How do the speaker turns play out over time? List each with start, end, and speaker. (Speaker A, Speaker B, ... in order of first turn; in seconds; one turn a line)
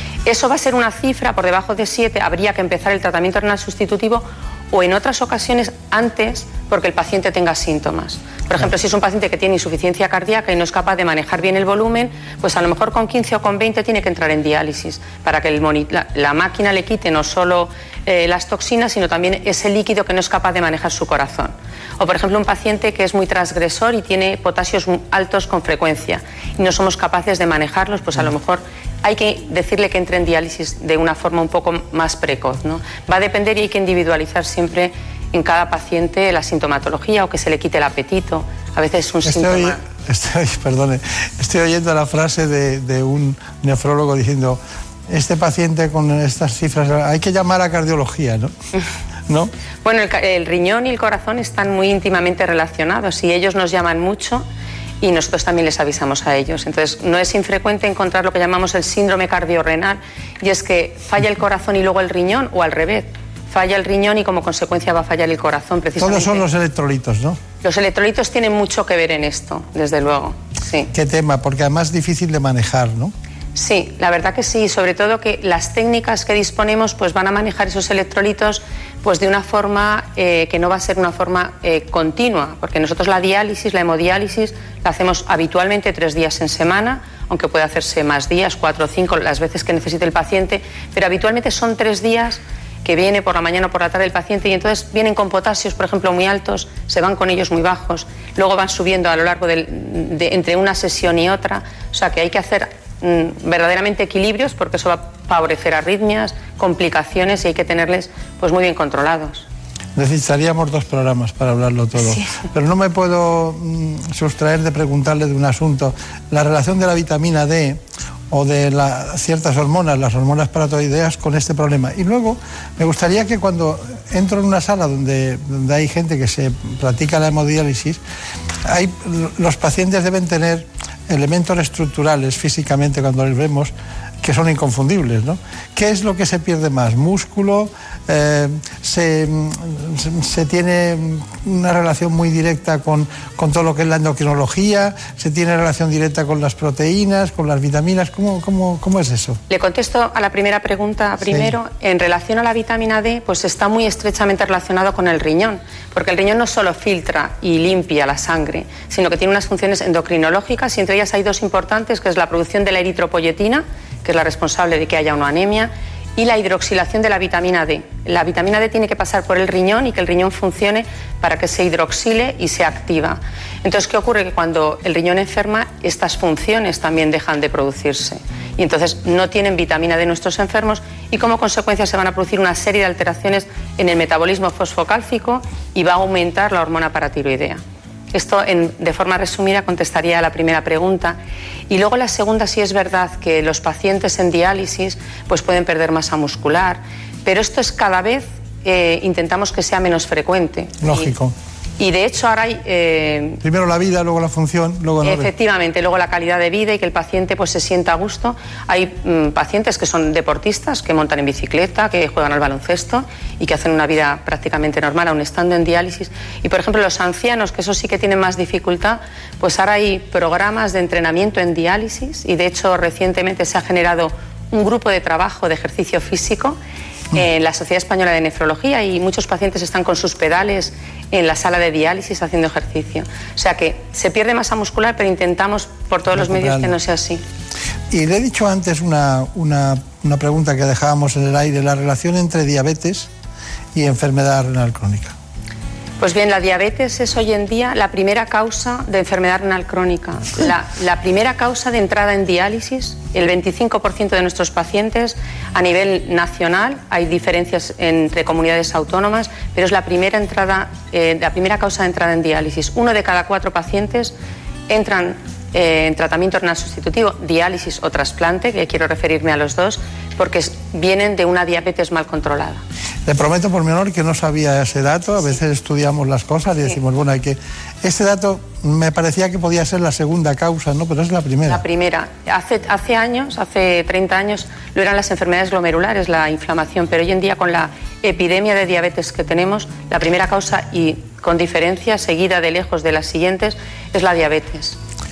Speaker A: 0.2-39.8
Speaker B: 39.2-48.5
Speaker A: 49.8-54.5
Speaker A: 55.0-66.5
Speaker B: 66.0-67.4
Speaker A: 67.6-70.9
Speaker B: 70.9-73.1
Speaker A: 73.5-109.5
Speaker B: 110.0-128.0
Speaker A: 112.0-112.3
Speaker B: 128.7-149.4
Speaker A: 149.5-187.6
Speaker B: 151.2-151.6
Speaker A: 188.1-191.2
Speaker A: 191.7-201.1
Speaker B: 200.8-201.3
Speaker A: 201.8-203.4
Speaker B: 203.4-205.3
Speaker A: 205.0-226.6
Speaker A: 227.1-237.2
Speaker B: 236.1-236.8
Speaker B: 237.9-243.1
Speaker B: 243.7-245.1
Speaker A: 246.0-264.1
Speaker A: 264.7-272.6
Speaker B: 273.1-281.6
Speaker A: 281.4-294.8